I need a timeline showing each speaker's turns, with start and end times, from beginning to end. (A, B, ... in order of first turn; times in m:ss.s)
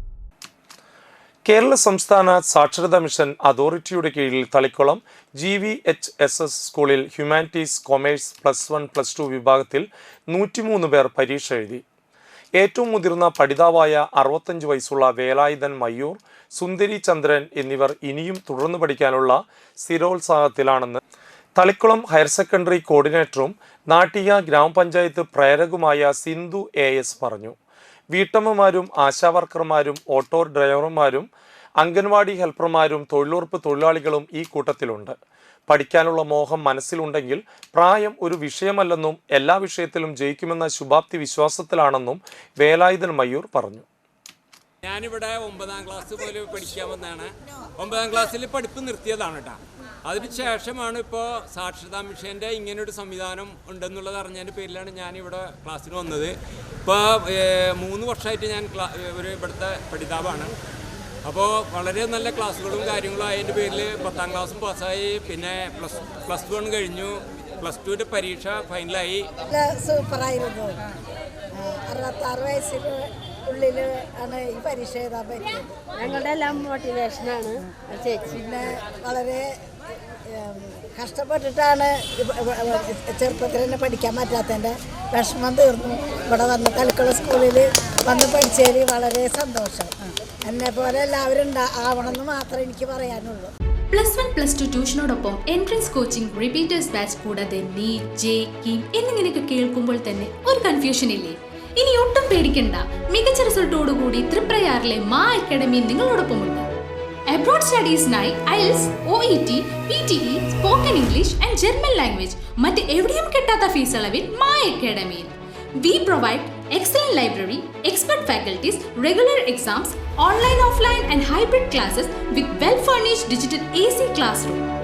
0:01.5-0:11.8 A
0:12.6-0:21.0 A
0:21.6-0:27.6 A
0:28.1-0:31.3 A
0:31.8-0:35.2 A
0:35.7-0:43.8 A
0:44.8-1:00.5 B
1:01.2-1:09.3 B
1:09.5-1:10.8 C
1:11.5-1:16.0 C
1:16.0-1:18.4 D
1:18.3-1:19.5 C
1:20.3-1:29.9 C
1:30.4-1:33.5 C
1:33.9-1:46.6 E
1:47.3-2:04.6 E